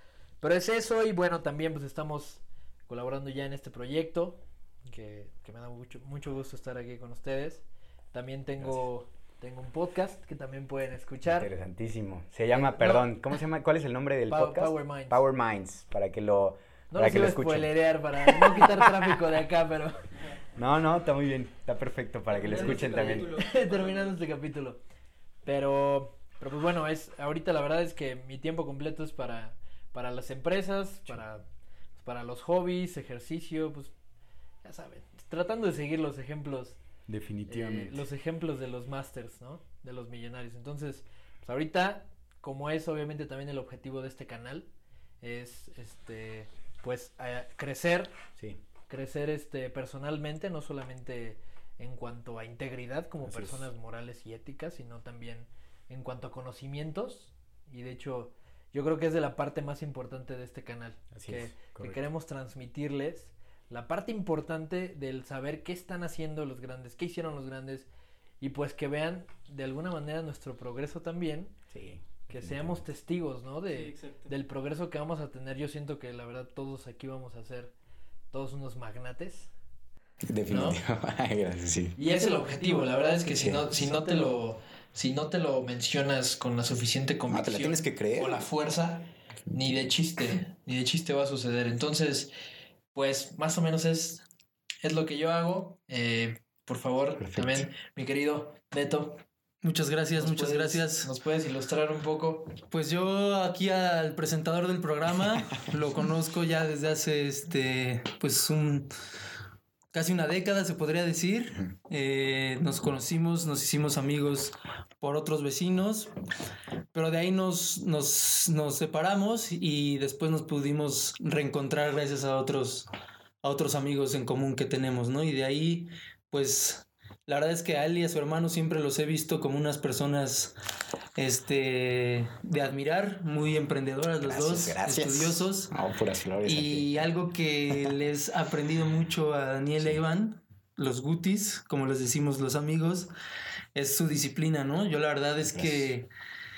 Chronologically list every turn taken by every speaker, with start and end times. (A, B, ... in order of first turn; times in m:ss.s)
0:00.4-0:11.5 A
0:11.3-0:17.7 B
0:12.5-0:13.1 A
0:14.3-0:15.2 A
0:16.9-0:20.0 A
0:18.3-0:18.9 B
0:20.6-0:23.3 B
0:22.3-0:24.2 C
0:22.4-0:24.8 A
0:25.4-0:31.4 A
0:32.0-0:33.9 A
0:34.6-0:36.8 A
0:37.1-0:38.1 B
0:37.5-0:44.7 A
0:45.2-0:48.1 A
0:48.9-1:07.9 A
0:53.2-0:53.6 B
1:01.1-1:02.0 B
1:08.4-1:11.5 A
1:11.7-1:12.9 B
1:12.3-1:17.7 A
1:13.7-1:14.3 C
1:18.3-1:19.5 A
1:20.3-1:22.0 B
1:20.5-1:20.8 A
1:22.0-1:32.3 A
1:23.3-1:23.9 B
1:27.3-1:28.4 B
1:32.9-1:34.2 A
1:34.8-1:39.2 A
1:37.2-1:37.7 B
1:39.6-1:41.1 C
1:40.1-1:42.5 A
1:42.6-1:48.9 C
1:49.9-1:56.1 C
1:56.9-2:02.9 C
2:03.4-2:10.6 C
2:11.2-2:15.7 C
2:14.2-2:17.0 B
2:16.4-2:23.1 C
2:23.7-2:26.1 C
2:25.4-2:25.9 B